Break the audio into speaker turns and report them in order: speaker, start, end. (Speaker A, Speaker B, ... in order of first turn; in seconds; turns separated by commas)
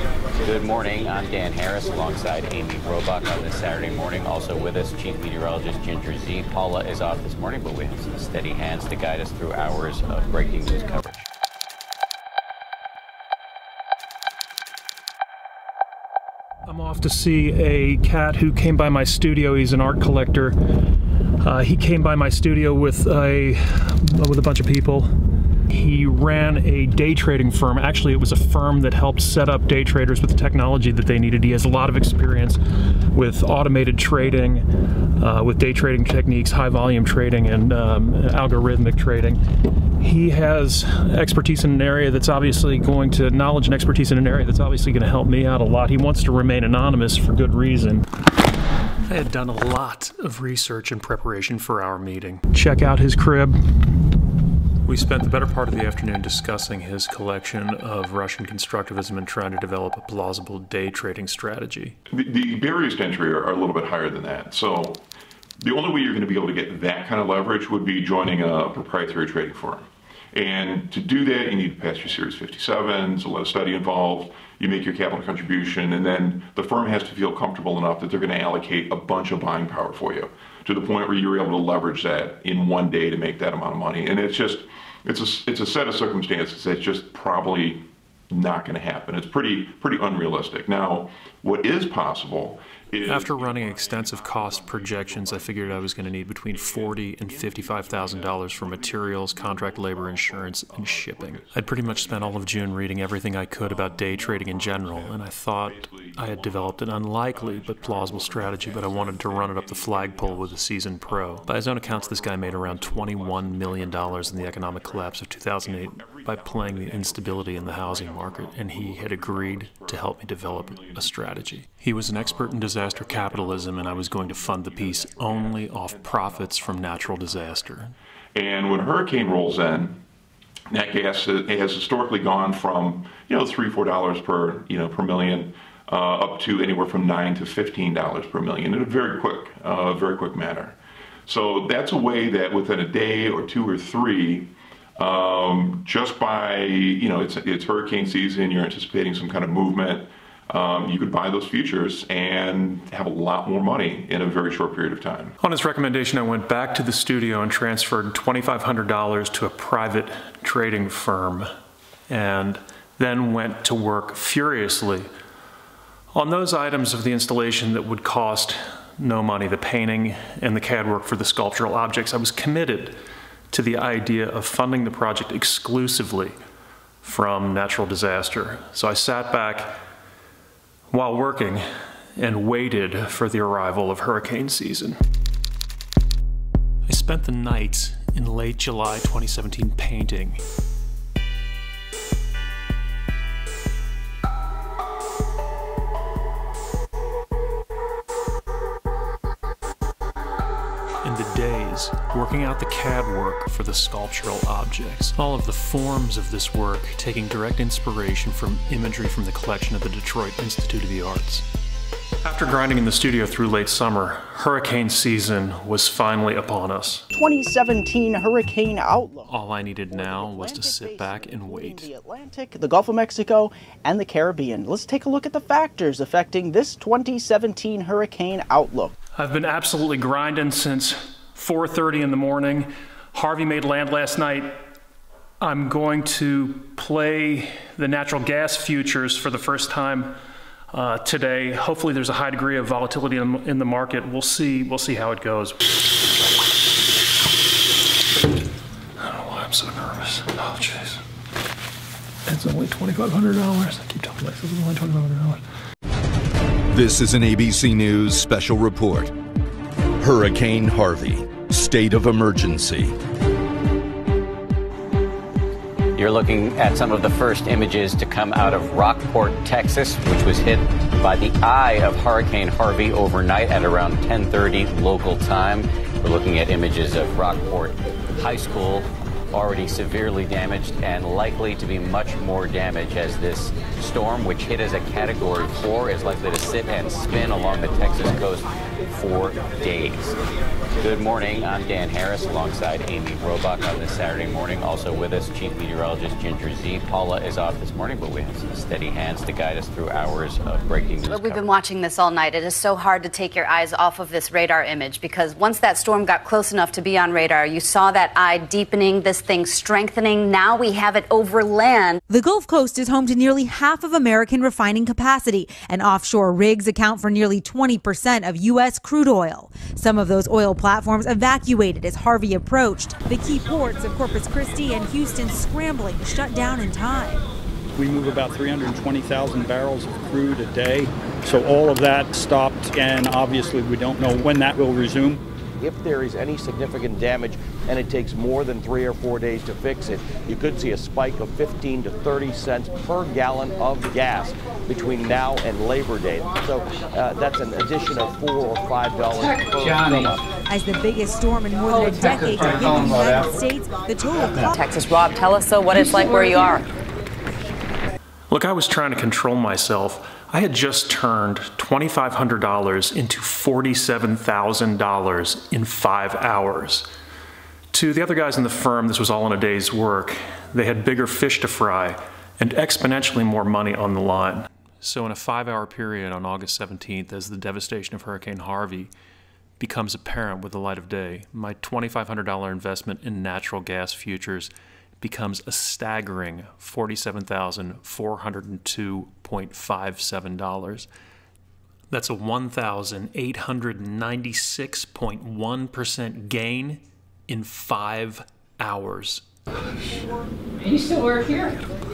Speaker A: 0.4-11.3, Speaker B: 16.7-20.6, Speaker B: 21.4-25.1, Speaker B: 25.7-34.7, Speaker B: 35.2-39.4, Speaker B: 40.0-48.1, Speaker B: 49.1-53.6, Speaker B: 54.9-62.0, Speaker C: 62.1-65.0, Speaker C: 65.6-102.7, Speaker B: 93.0-127.9, Speaker C: 103.6-121.5, Speaker C: 122.1-127.7, Speaker C: 128.3-130.0, Speaker C: 130.7-140.8, Speaker C: 141.3-155.3, Speaker B: 155.4-161.5, Speaker B: 162.1-165.1, Speaker B: 166.1-172.9, Speaker B: 173.5-176.3, Speaker B: 177.0-179.7, Speaker B: 180.9-181.6, Speaker B: 182.2-185.0, Speaker B: 186.9-190.4, Speaker B: 201.0-211.5, Speaker B: 212.2-217.1, Speaker D: 217.1-219.3, Speaker B: 219.3-221.9, Speaker D: 219.9-228.9, Speaker B: 229.2-234.5, Speaker B: 235.4-240.1, Speaker B: 240.7-245.6, Speaker B: 249.0-251.0, Speaker B: 252.3-255.4, Speaker E: 256.7-259.1, Speaker E: 260.0-262.9, Speaker A: 266.0-290.2, Speaker A: 290.8-301.5, Speaker F: 301.0-312.0, Speaker G: 312.1-327.2, Speaker H: 327.8-335.2, Speaker I: 335.6-350.2, Speaker J: 349.2-350.2, Speaker G: 350.5-354.6, Speaker J: 351.6-353.4, Speaker J: 354.1-356.6, Speaker F: 354.5-356.6, Speaker B: 358.3-366.9, Speaker B: 367.7-378.9, Speaker B: 379.6-384.5, Speaker B: 385.0-390.9, Speaker B: 391.9-399.2, Speaker J: 400.6-401.6